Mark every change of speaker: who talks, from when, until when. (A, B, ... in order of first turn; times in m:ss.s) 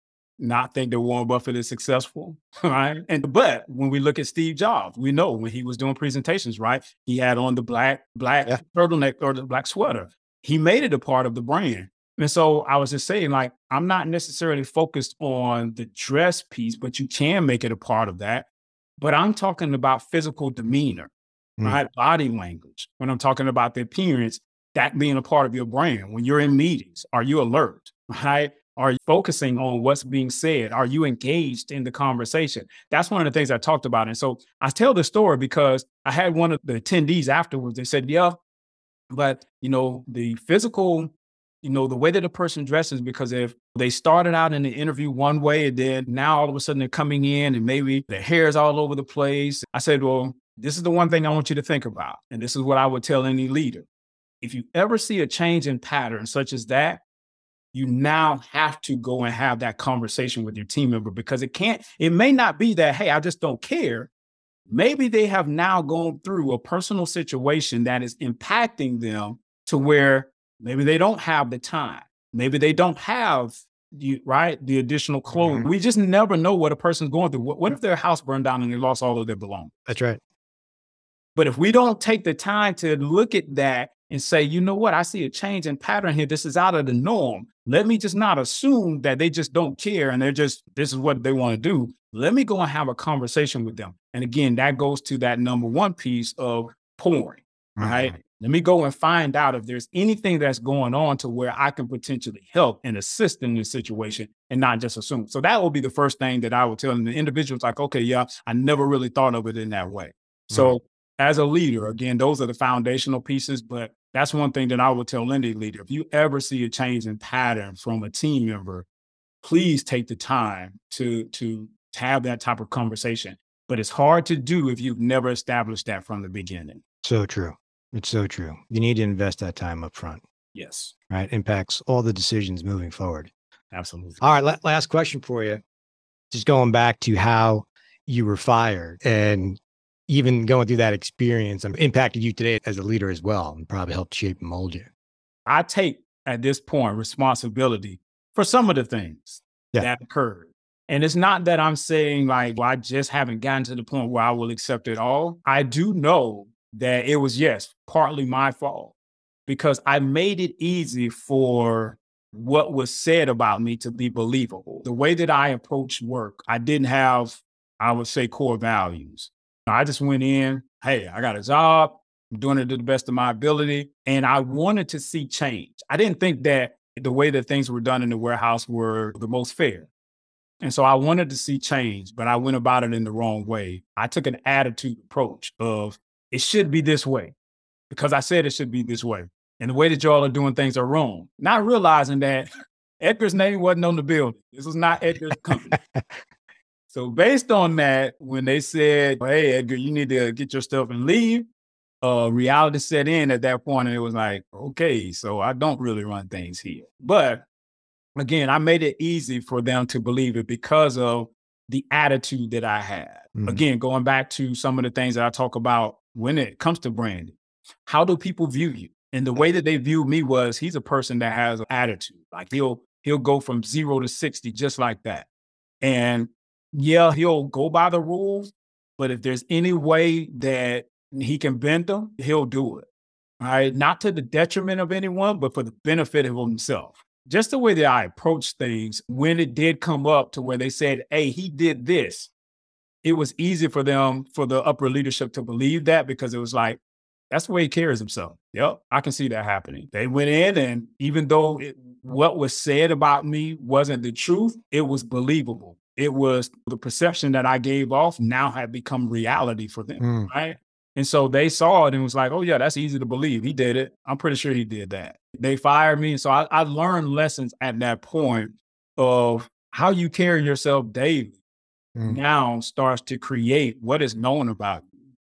0:00.4-0:18.5 A
0:19.0-0:21.1 A
0:21.6-0:38.4 A
0:39.1-0:53.9 A
0:54.4-0:57.0 A
0:57.7-1:04.1 A
1:04.7-1:19.7 A
1:15.3-1:15.6 B
1:19.9-1:20.2 B
1:21.4-1:58.9 A
1:37.8-1:38.1 B
1:59.4-2:06.8 A
2:07.0-2:10.2 B
2:10.5-2:10.9 A
2:11.1-2:13.3 B
2:13.7-2:14.2 A
2:14.2-2:15.6 B
2:16.3-2:24.9 B
2:25.4-2:38.9 A
2:39.5-2:59.9 A
3:00.6-3:07.3 A
3:07.9-3:12.5 A
3:13.0-3:15.8 A
3:16.9-3:21.5 A
3:22.0-3:27.4 A
3:28.2-3:45.3 A
3:33.3-3:33.6 B
3:45.8-3:52.9 A
3:53.4-4:02.3 A
4:03.0-4:06.8 A
4:07.3-4:31.4 A
4:20.0-4:20.3 B
4:32.0-4:34.9 A